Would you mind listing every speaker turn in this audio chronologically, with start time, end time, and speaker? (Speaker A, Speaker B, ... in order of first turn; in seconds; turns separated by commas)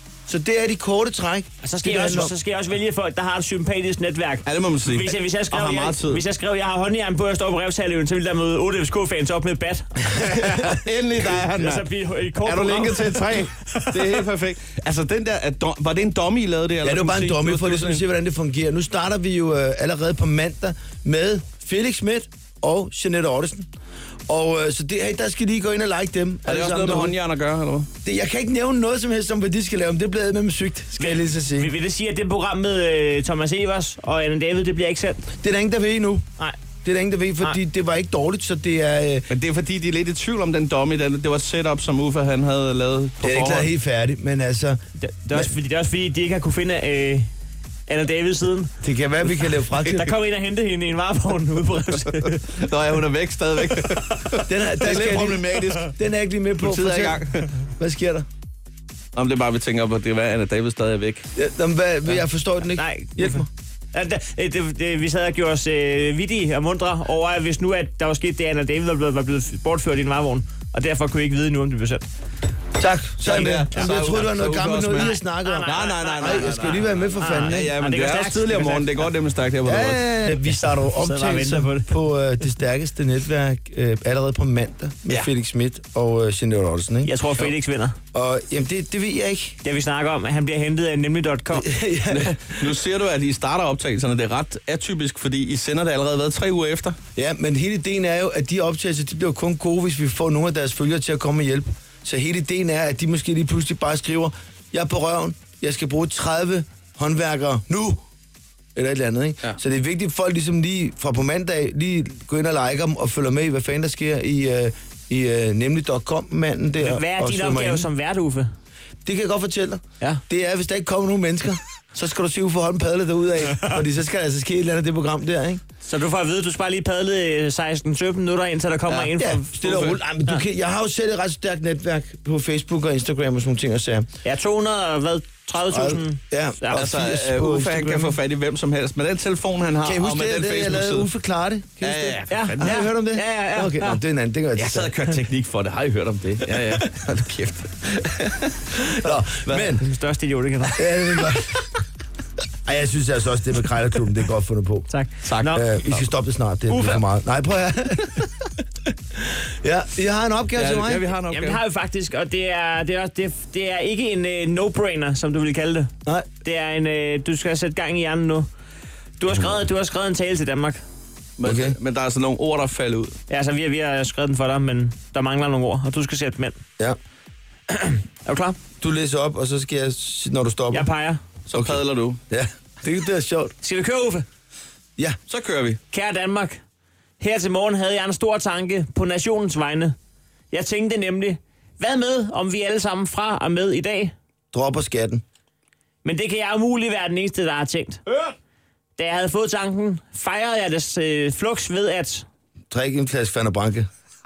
Speaker A: 0.3-2.3, Speaker B: 1.6-10.5, Speaker C: 4.5-6.2, Speaker C: 10.1-18.0, Speaker B: 11.2-14.2, Speaker A: 16.8-23.7, Speaker A: 24.3-27.2, Speaker C: 26.5-27.9, Speaker A: 28.0-31.7, Speaker B: 31.0-35.2, Speaker A: 35.4-36.2, Speaker A: 36.8-39.3, Speaker C: 39.3-43.7, Speaker A: 43.2-44.8, Speaker B: 45.0-47.3, Speaker B: 47.9-48.7, Speaker A: 48.8-50.1, Speaker B: 49.8-52.5, Speaker C: 52.5-56.0, Speaker A: 54.5-58.3, Speaker C: 56.6-57.5, Speaker C: 59.1-61.3, Speaker A: 61.4-63.5, Speaker B: 62.8-72.1, Speaker A: 72.8-77.7, Speaker C: 73.2-80.1, Speaker B: 73.4-73.9, Speaker B: 74.9-79.1, Speaker A: 79.7-87.1, Speaker B: 80.9-81.9, Speaker B: 87.0-88.0, Speaker A: 88.1-89.6, Speaker B: 89.6-91.7, Speaker A: 91.5-92.8, Speaker C: 92.1-97.0, Speaker A: 97.2-108.0, Speaker A: 108.8-117.9, Speaker B: 116.8-118.5, Speaker A: 119.0-125.6, Speaker B: 125.8-129.6, Speaker A: 128.9-134.1, Speaker C: 129.6-130.0, Speaker B: 134.2-136.8, Speaker A: 135.7-138.2, Speaker C: 136.7-141.1, Speaker A: 139.8-144.9, Speaker C: 141.8-142.8, Speaker B: 142.3-144.0, Speaker C: 144.6-149.7, Speaker A: 149.0-149.9, Speaker B: 149.8-150.9, Speaker A: 150.7-151.7, Speaker A: 152.7-154.9, Speaker B: 154.9-155.6, Speaker C: 155.2-155.9, Speaker A: 155.5-158.6, Speaker B: 156.7-157.0, Speaker A: 159.2-161.1, Speaker C: 160.6-161.6, Speaker B: 161.3-168.5, Speaker B: 169.2-170.8, Speaker C: 171.4-173.2, Speaker A: 171.4-171.8, Speaker B: 173.3-176.6, Speaker B: 177.7-178.6, Speaker A: 178.8-180.9, Speaker B: 180.7-181.2, Speaker C: 181.5-182.2, Speaker A: 181.6-183.6, Speaker B: 183.6-184.3, Speaker C: 185.3-185.8, Speaker B: 185.9-186.6, Speaker B: 187.2-189.9, Speaker B: 190.5-194.1, Speaker A: 194.5-195.2, Speaker B: 196.0-198.0, Speaker B: 199.0-202.3, Speaker A: 202.7-203.9